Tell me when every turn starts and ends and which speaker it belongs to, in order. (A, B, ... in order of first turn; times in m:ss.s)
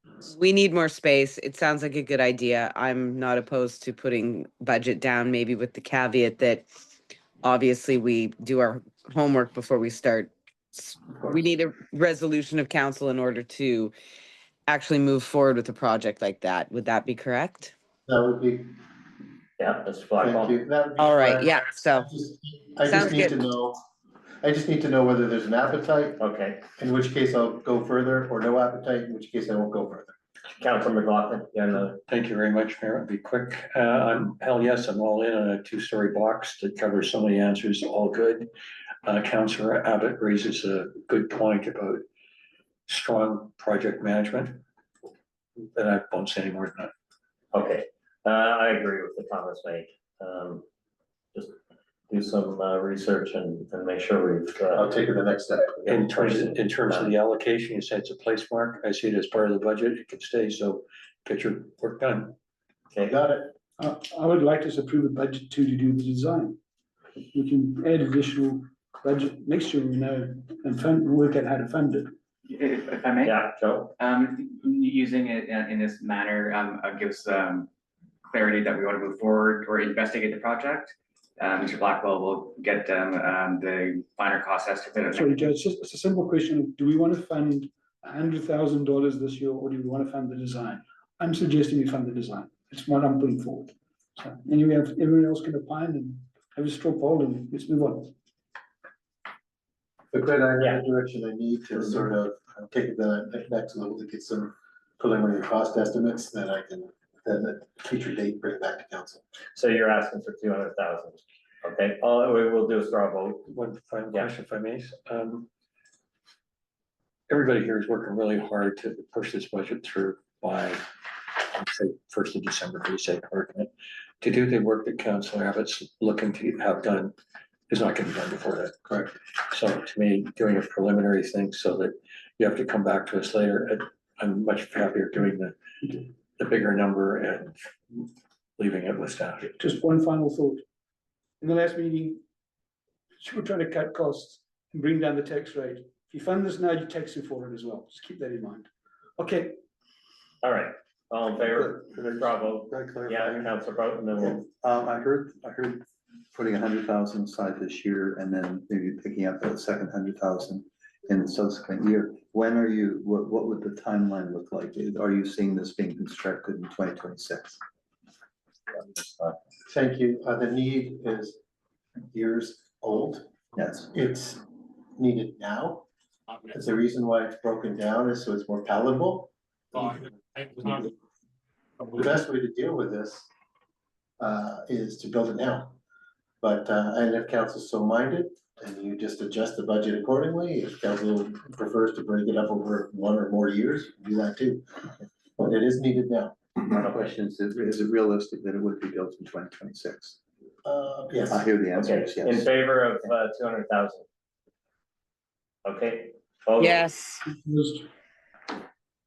0:00.2-0:06.6 A
0:07.4-0:13.9 A
0:14.7-0:17.7 A
0:18.0-0:18.7 B
0:19.6-0:20.5 C
0:20.2-0:23.8 B
0:21.0-0:22.1 A
0:22.8-0:23.4 A
0:24.4-0:26.2 B
0:26.2-0:26.6 C
0:26.8-0:30.1 B
0:30.6-0:32.0 C
0:32.1-0:38.5 D
0:39.0-0:42.0 D
0:42.9-0:44.6 D
0:45.7-0:46.9 D
0:47.5-0:50.6 C
0:52.1-0:54.9 C
0:54.7-0:56.1 B
0:55.8-1:02.3 D
0:56.2-0:57.1 C
1:03.1-1:03.5 B
1:03.8-1:06.6 E
1:07.3-1:12.1 E
1:12.5-1:13.4 F
1:13.2-1:13.9 C
1:14.0-1:17.7 F
1:18.2-1:25.4 F
1:25.1-1:38.1 E
1:40.1-1:49.2 B
1:49.6-1:53.5 C
1:53.5-1:55.5 D
1:57.3-2:00.8 D
2:01.5-2:03.7 D
2:04.2-2:07.1 D
2:07.7-2:08.9 D
2:09.5-2:19.5 D
2:19.5-2:20.6 E
2:21.4-2:22.2 E
2:23.2-2:29.6 E
2:30.4-2:34.4 C
2:31.4-2:33.6 G
2:34.1-2:47.6 G
2:48.7-2:49.4 C
2:49.7-2:51.4 B
2:52.1-2:53.3 B
2:53.6-2:53.9 G
2:53.9-2:54.4 B
2:55.0-2:55.9 B
2:56.5-3:00.9 B
3:01.9-3:03.3 B
3:04.2-3:05.7 B
3:06.4-3:14.8 B
3:15.4-3:16.4 B
3:16.6-3:20.2 G
3:20.6-3:21.4 B
3:21.3-3:22.5 G
3:21.8-3:24.0 C
3:25.6-3:26.9 C
3:26.6-3:27.2 A
3:27.3-3:27.8 E